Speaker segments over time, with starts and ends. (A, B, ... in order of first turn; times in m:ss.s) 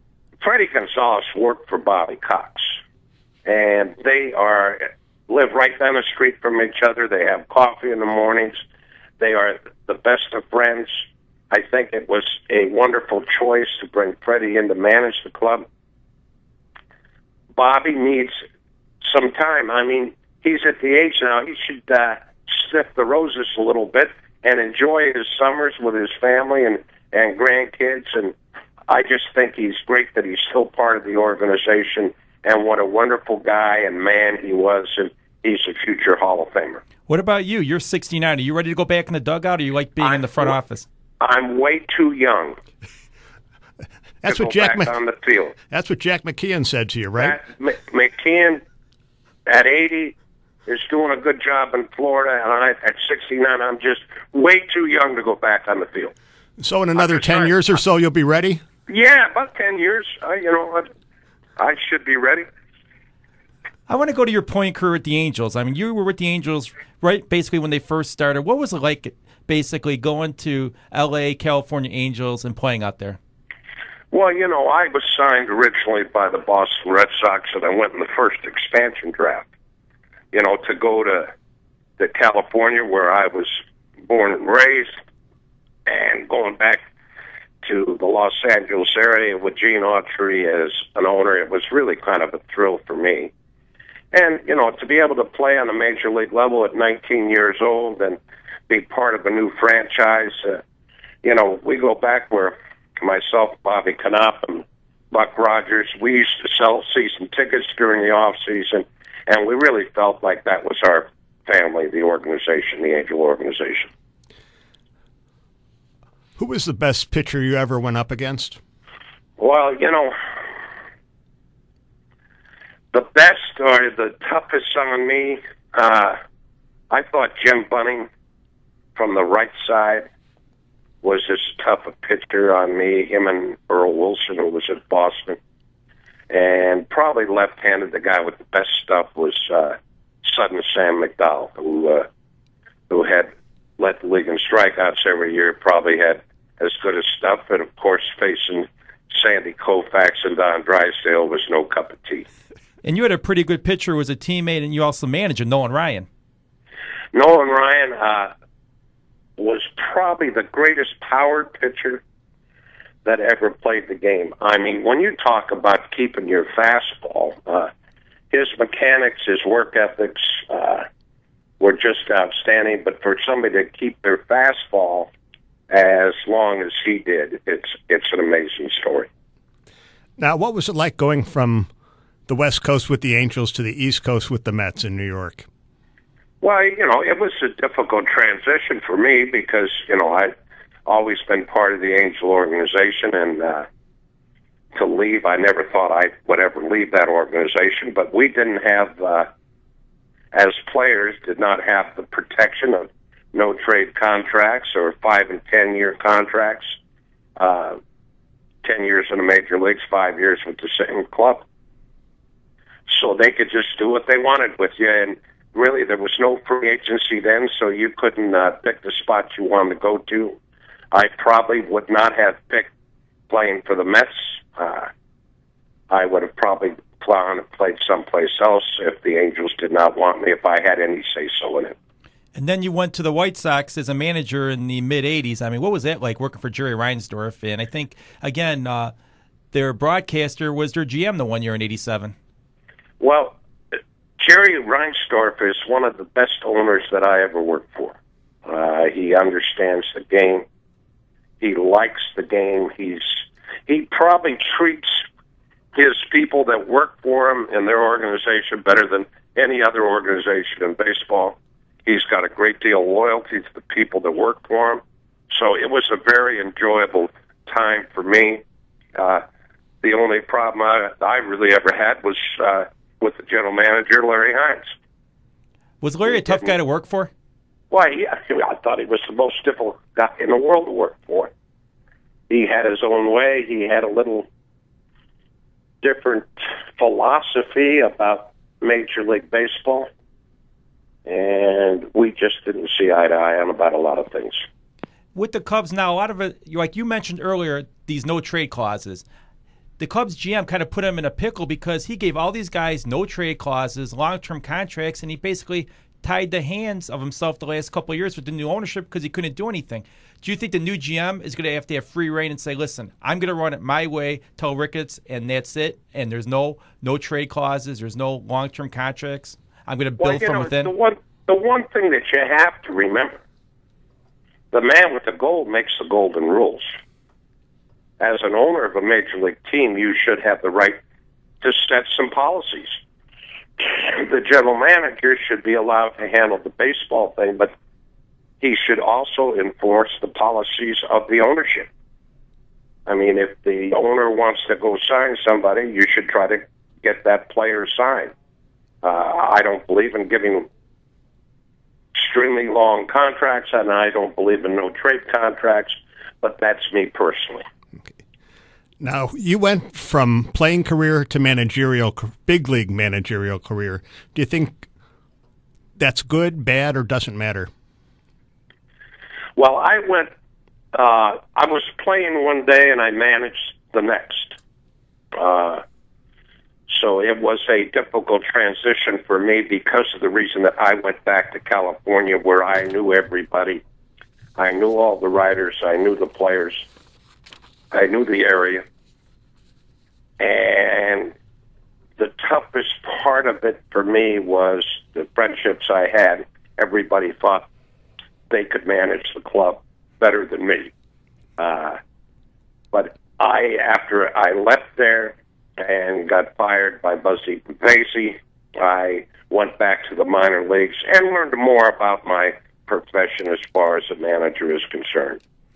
0:00.4-0:02.8 A
0:03.5-0:08.6 A
0:09.2-0:15.7 A
0:17.6-0:18.4 A
0:19.0-0:28.3 A
0:28.9-0:36.8 A
0:37.1-0:40.9 B
0:40.0-0:40.6 A
0:41.2-0:42.6 A
0:44.2-0:44.9 C
0:44.2-0:45.6 A
0:45.7-0:47.4 C
0:47.2-0:48.6 A
0:49.5-0:50.2 A
0:50.7-0:56.1 A
0:56.6-0:58.6 C
0:57.0-0:57.5 A
0:58.9-1:00.9 A
1:01.6-1:02.4 A
1:03.9-1:13.2 B
1:14.1-1:19.5 A
1:20.3-1:21.3 A
1:22.0-1:25.0 A
1:25.9-1:26.8 A
1:27.6-1:33.3 A
1:34.1-1:40.6 A
1:41.2-1:53.9 A
1:56.4-1:58.6 C
1:59.4-2:00.1 A
2:02.9-2:06.2 A
2:06.9-2:08.1 A
2:09.0-2:10.1 A
2:11.0-2:15.4 A
2:16.3-2:22.1 A
2:22.9-2:32.3 A
2:32.8-2:36.1 B
2:37.1-2:38.3 A
2:39.4-2:42.0 A
2:43.0-2:47.7 A
2:48.3-2:50.9 A
2:51.6-2:55.1 A
2:55.7-2:59.1 A
3:00.2-3:01.7 C
3:02.3-3:05.5 C
3:06.4-3:10.3 A
3:10.9-3:13.7 A
3:14.7-3:19.3 A
3:20.3-3:26.8 A
3:27.4-3:27.8 A
3:28.6-3:31.4 A
3:32.9-3:40.4 A
3:40.9-3:42.7 A
3:43.3-3:44.9 A
3:45.9-3:51.8 A
3:52.4-3:58.9 B
3:59.5-4:02.1 B
4:03.0-4:03.4 A
4:04.2-4:10.4 A
4:11.4-4:15.0 A
4:15.8-4:28.4 A
4:29.0-4:29.2 A
4:29.8-4:34.7 A
4:35.8-4:37.1 B
4:36.1-4:36.5 A
4:37.7-4:41.3 A
4:42.3-4:44.3 A
4:45.8-4:49.9 A
4:51.1-4:54.4 A
4:55.2-4:59.0 B
4:59.8-5:20.7 B
5:20.0-5:23.2 A
5:24.5-5:26.7 A
5:28.0-5:30.8 A
5:31.4-5:32.8 A
5:33.6-5:37.5 A
5:38.4-5:41.7 A
5:42.9-5:48.1 A
5:48.8-5:50.5 A
5:52.0-5:57.4 A
5:58.8-6:04.7 C
6:05.8-6:07.5 C
6:09.4-6:10.1 A
6:10.7-6:14.4 A
6:15.1-6:15.6 A
6:16.7-6:23.6 A
6:24.4-6:26.6 A
6:27.7-6:28.6 A
6:30.2-6:31.1 A
6:32.0-6:37.4 A
6:38.3-6:40.7 A
6:41.4-6:41.8 A
6:42.7-6:55.2 A